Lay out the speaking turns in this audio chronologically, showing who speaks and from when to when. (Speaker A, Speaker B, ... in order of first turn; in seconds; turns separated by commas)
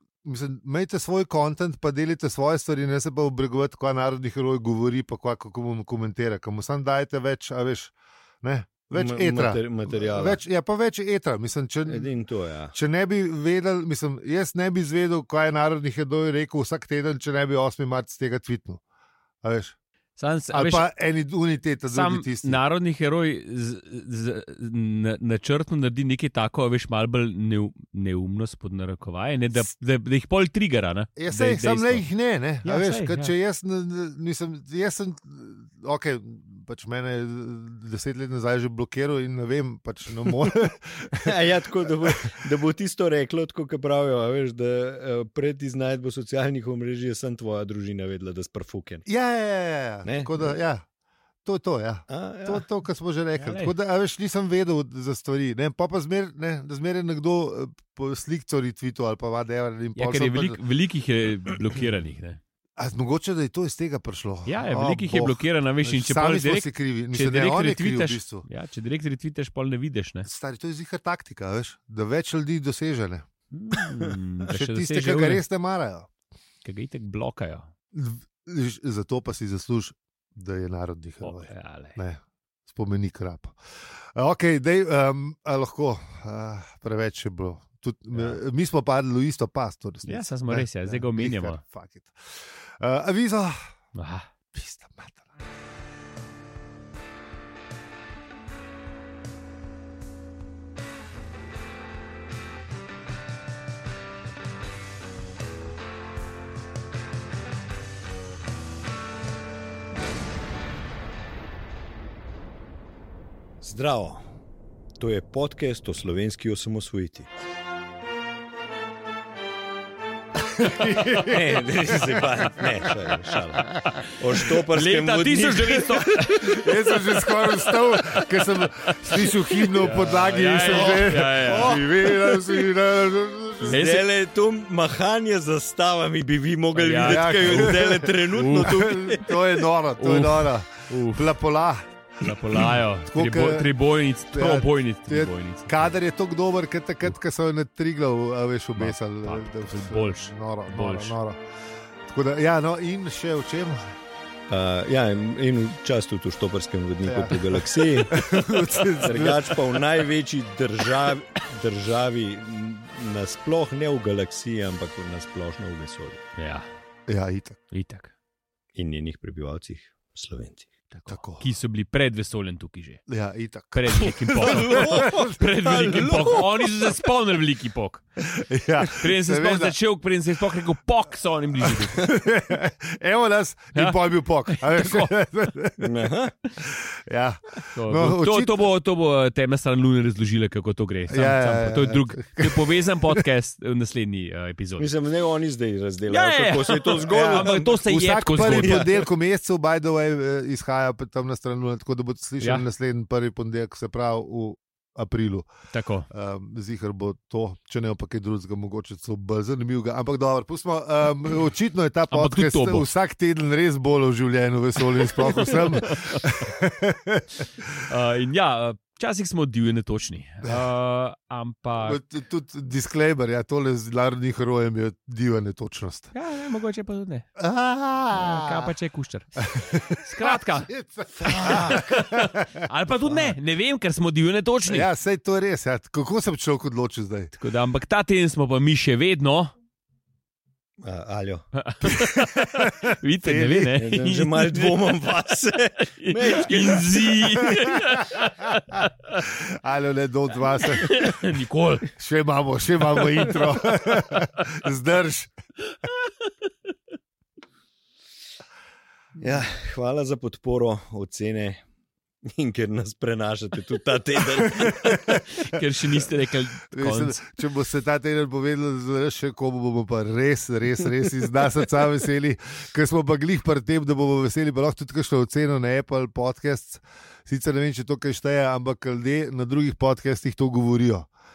Speaker A: 0.2-12.1, Speaker B: 8.9-10.4, Speaker B: 11.9-12.7, Speaker A: 12.7-18.8, Speaker A: 19.4-19.7, Speaker C: 20.2-20.9, Speaker A: 20.5-22.6, Speaker C: 21.9-32.1, Speaker A: 31.2-41.3, Speaker C: 32.6-33.3, Speaker B: 41.2-49.0, Speaker A: 49.0-50.8, Speaker B: 50.0-50.4, Speaker A: 51.4-60.6, Speaker B: 52.1-52.6, Speaker C: 53.4-53.7, Speaker C: 60.0-62.4, Speaker A: 62.8-68.5, Speaker C: 64.5-70.3, Speaker A: 70.2-73.2, Speaker C: 73.5-75.4, Speaker A: 74.5-76.1, Speaker C: 76.6-77.7, Speaker A: 77.9-93.6, Speaker C: 81.2-82.0, Speaker C: 90.0-91.6, Speaker C: 93.9-94.3, Speaker A: 94.5-95.2, Speaker B: 113.6-114.2, Speaker B: 115.0-117.3, Speaker A: 120.4-122.7, Speaker C: 120.8-121.3, Speaker B: 121.3-126.4, Speaker C: 122.1-123.1, Speaker C: 123.8-131.8, Speaker A: 126.4-133.8, Speaker B: 130.6-132.6, Speaker B: 133.6-139.4, Speaker C: 133.7-134.0, Speaker C: 136.7-138.8, Speaker A: 137.0-143.7, Speaker C: 140.0-141.3, Speaker C: 142.2-145.9, Speaker A: 144.3-151.4, Speaker C: 148.8-151.2, Speaker A: 152.0-153.9, Speaker B: 154.5-158.3, Speaker A: 157.0-159.6, Speaker C: 158.8-159.3, Speaker B: 159.0-166.2, Speaker C: 166.3-166.7, Speaker A: 167.1-167.6, Speaker C: 167.7-168.1, Speaker B: 168.8-170.7, Speaker C: 170.9-173.0, Speaker A: 171.1-171.4, Speaker A: 173.1-175.3, Speaker C: 173.7-178.0, Speaker B: 174.4-176.8, Speaker A: 178.3-179.8, Speaker C: 178.8-182.1, Speaker A: 181.6-188.7, Speaker C: 183.7-185.1, Speaker B: 185.8-186.3, Speaker C: 187.7-194.9, Speaker A: 191.1-193.2, Speaker B: 194.8-197.8, Speaker C: 196.1-198.9, Speaker A: 197.1-205.5, Speaker B: 198.3-199.0, Speaker C: 202.4-202.7, Speaker C: 205.7-206.1, Speaker A: 206.1-217.8, Speaker C: 212.1-212.9, Speaker C: 215.0-216.5, Speaker C: 217.8-222.0, Speaker A: 221.8-226.1, Speaker C: 226.1-227.3, Speaker A: 227.4-228.7, Speaker C: 228.1-229.4, Speaker A: 229.4-233.3, Speaker C: 230.0-234.9, Speaker A: 234.7-237.3, Speaker C: 237.3-239.5, Speaker B: 240.8-241.5, Speaker C: 241.5-244.8, Speaker A: 241.8-243.8, Speaker B: 243.8-247.6, Speaker C: 245.9-249.2, Speaker A: 249.2-251.2, Speaker C: 250.7-251.9, Speaker A: 251.9-255.3, Speaker C: 253.0-253.8, Speaker C: 255.8-256.3, Speaker B: 259.2-261.6, Speaker B: 262.2-265.5, Speaker A: 264.7-265.2, Speaker C: 265.3-267.2, Speaker A: 266.7-281.1